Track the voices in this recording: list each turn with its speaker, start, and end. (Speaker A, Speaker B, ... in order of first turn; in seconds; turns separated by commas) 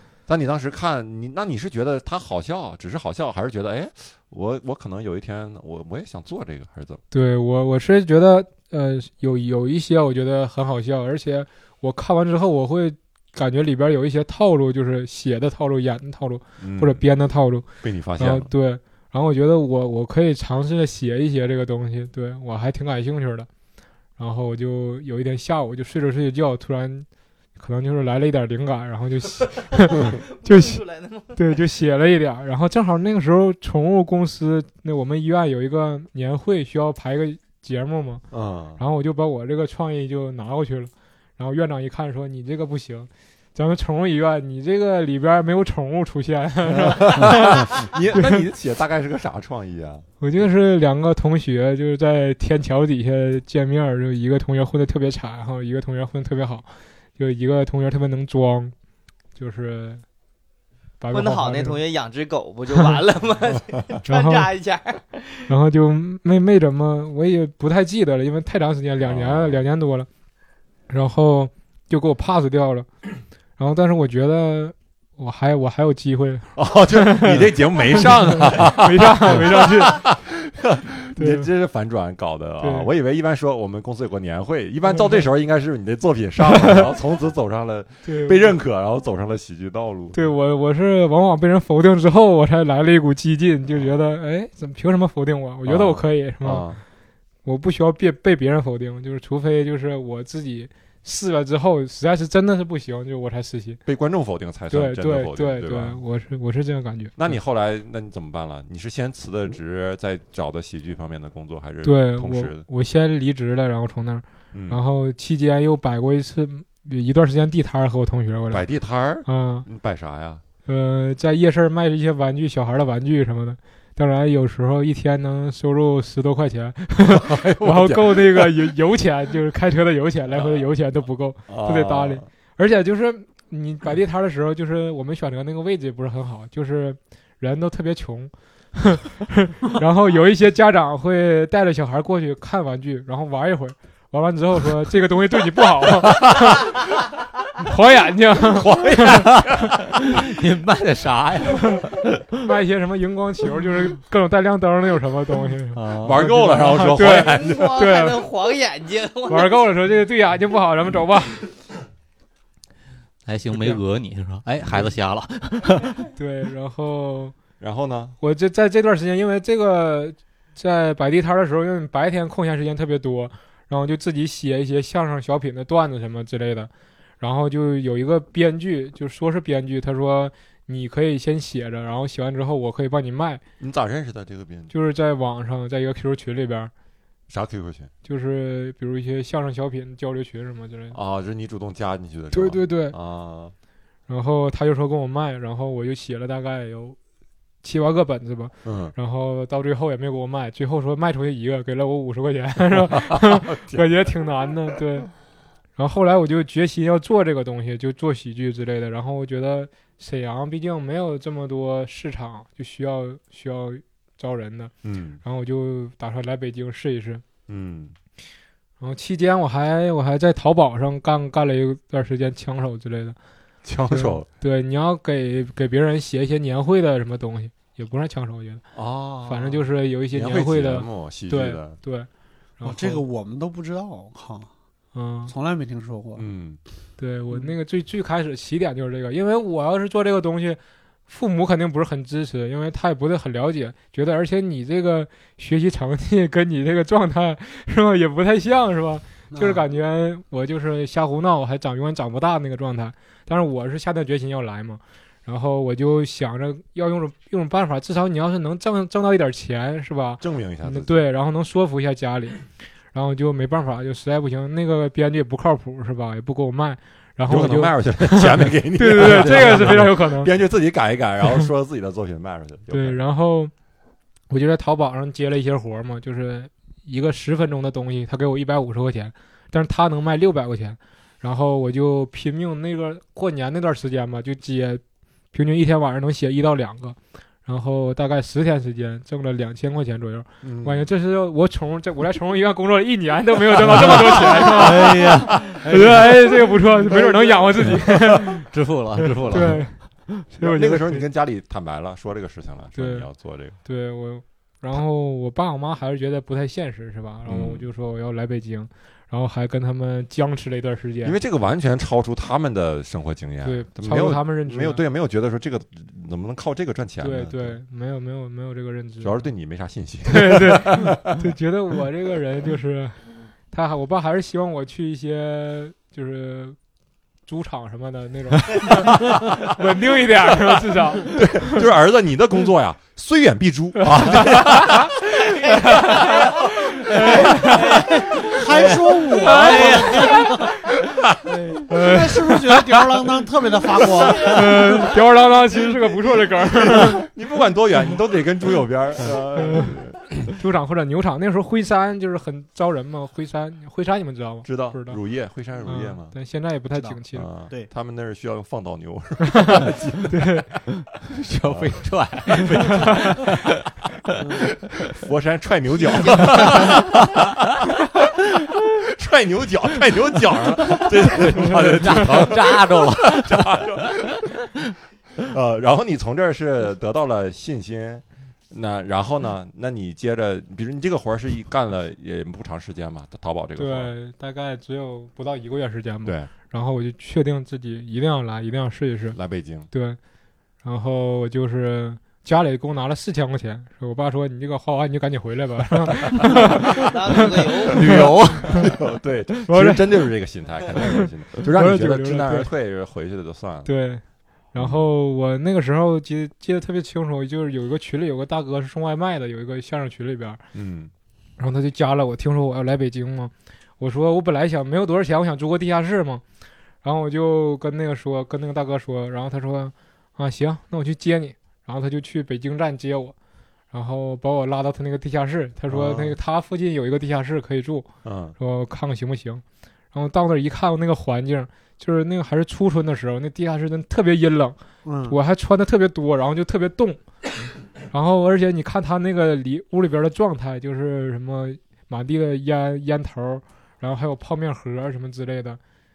Speaker A: 0.3-7.0, Speaker B: 7.1-23.5, Speaker A: 16.6-17.0, Speaker A: 17.8-18.5, Speaker B: 24.2-30.8, Speaker C: 29.9-31.4, Speaker B: 31.3-38.2, Speaker A: 38.3-38.8, Speaker B: 38.8-48.4, Speaker A: 46.9-50.1, Speaker B: 50.2-56.7, Speaker B: 57.2-58.7, Speaker B: 59.4-60.0, Speaker B: 61.0-61.8, Speaker C: 61.1-65.4, Speaker B: 64.1-64.5, Speaker B: 65.5-70.1, Speaker A: 69.0-69.6, Speaker B: 70.9-72.9, Speaker B: 73.6-80.1, Speaker A: 76.6-90.2, Speaker B: 81.2-81.5, Speaker B: 82.6-82.9, Speaker B: 84.9-85.3, Speaker B: 86.5-86.9, Speaker B: 88.0-88.5, Speaker B: 90.1-96.7, Speaker A: 95.7-96.8, Speaker B: 97.5-103.8, Speaker A: 103.9-106.0, Speaker B: 104.7-107.4, Speaker A: 107.2-112.7, Speaker B: 111.8-118.6, Speaker A: 114.5-114.8, Speaker A: 118.5-120.4, Speaker B: 119.2-119.7, Speaker B: 120.7-146.8, Speaker A: 127.1-128.5, Speaker A: 130.3-130.7, Speaker A: 131.5-132.3, Speaker A: 146.2-146.6, Speaker B: 147.6-149.3, Speaker A: 148.5-149.8, Speaker D: 149.3-151.9, Speaker B: 152.4-158.2, Speaker D: 155.7-156.3, Speaker A: 156.0-157.8, Speaker C: 157.0-159.6, Speaker B: 159.3-161.4, Speaker D: 163.3-166.1, Speaker B: 163.5-163.8, Speaker B: 166.2-167.4, Speaker A: 167.6-168.2, Speaker B: 168.2-176.7, Speaker B: 177.2-183.4, Speaker A: 183.6-184.7, Speaker B: 184.7-186.7, Speaker A: 187.3-187.9, Speaker B: 188.1-191.0, Speaker A: 190.9-193.5, Speaker B: 192.3-193.0, Speaker B: 194.1-197.0, Speaker B: 197.6-205.1, Speaker A: 198.6-198.9, Speaker A: 202.9-203.9, Speaker B: 205.8-217.2, Speaker A: 214.8-215.2, Speaker A: 217.5-217.9, Speaker B: 218.8-223.2, Speaker A: 223.6-224.3, Speaker B: 223.9-228.6, Speaker A: 228.7-231.8, Speaker B: 229.2-232.1, Speaker B: 232.6-233.0, Speaker E: 232.6-234.5, Speaker B: 234.9-235.3, Speaker E: 235.3-236.2, Speaker A: 236.2-236.6, Speaker B: 237.0-270.3, Speaker E: 249.3-249.6, Speaker A: 260.2-261.1, Speaker A: 267.3-273.0, Speaker B: 272.7-273.5, Speaker B: 274.3-284.8, Speaker B: 285.3-298.4, Speaker A: 290.4-290.9, Speaker A: 293.6-295.6, Speaker D: 293.8-296.9, Speaker A: 296.9-298.2, Speaker D: 297.5-300.2, Speaker B: 299.3-301.1, Speaker A: 300.4-303.6, Speaker B: 302.8-311.2, Speaker A: 307.3-307.7, Speaker A: 311.0-317.6, Speaker B: 313.4-314.8, Speaker B: 317.0-319.3, Speaker A: 319.0-321.2, Speaker B: 320.1-326.6, Speaker B: 327.3-331.7, Speaker A: 331.0-336.3, Speaker B: 334.0-334.4, Speaker C: 335.4-336.4, Speaker B: 336.9-337.6, Speaker C: 337.6-337.9, Speaker E: 338.2-340.6, Speaker C: 339.2-339.8, Speaker B: 341.7-342.6, Speaker E: 341.7-344.8, Speaker B: 344.2-347.0, Speaker A: 346.6-350.3, Speaker B: 349.4-349.8, Speaker B: 350.3-355.0, Speaker A: 354.4-356.1, Speaker B: 355.6-357.3, Speaker A: 357.1-360.3, Speaker B: 359.4-360.5, Speaker D: 360.9-363.6, Speaker A: 361.4-361.9, Speaker E: 364.2-364.5, Speaker A: 364.9-374.4, Speaker D: 366.2-366.9, Speaker D: 370.7-374.3, Speaker A: 375.2-383.9, Speaker B: 383.6-390.0, Speaker A: 386.1-386.3, Speaker A: 389.1-389.7, Speaker B: 390.6-397.9, Speaker C: 396.6-398.0, Speaker D: 397.8-398.4, Speaker A: 397.8-403.7, Speaker B: 399.5-400.0, Speaker B: 400.8-402.5, Speaker B: 403.6-410.4, Speaker A: 404.6-404.8, Speaker A: 410.5-410.9, Speaker B: 411.4-416.2, Speaker B: 416.8-423.1, Speaker B: 423.7-427.9, Speaker A: 425.7-426.2, Speaker A: 428.0-428.4, Speaker B: 428.4-437.0, Speaker E: 434.9-435.2, Speaker B: 437.9-445.6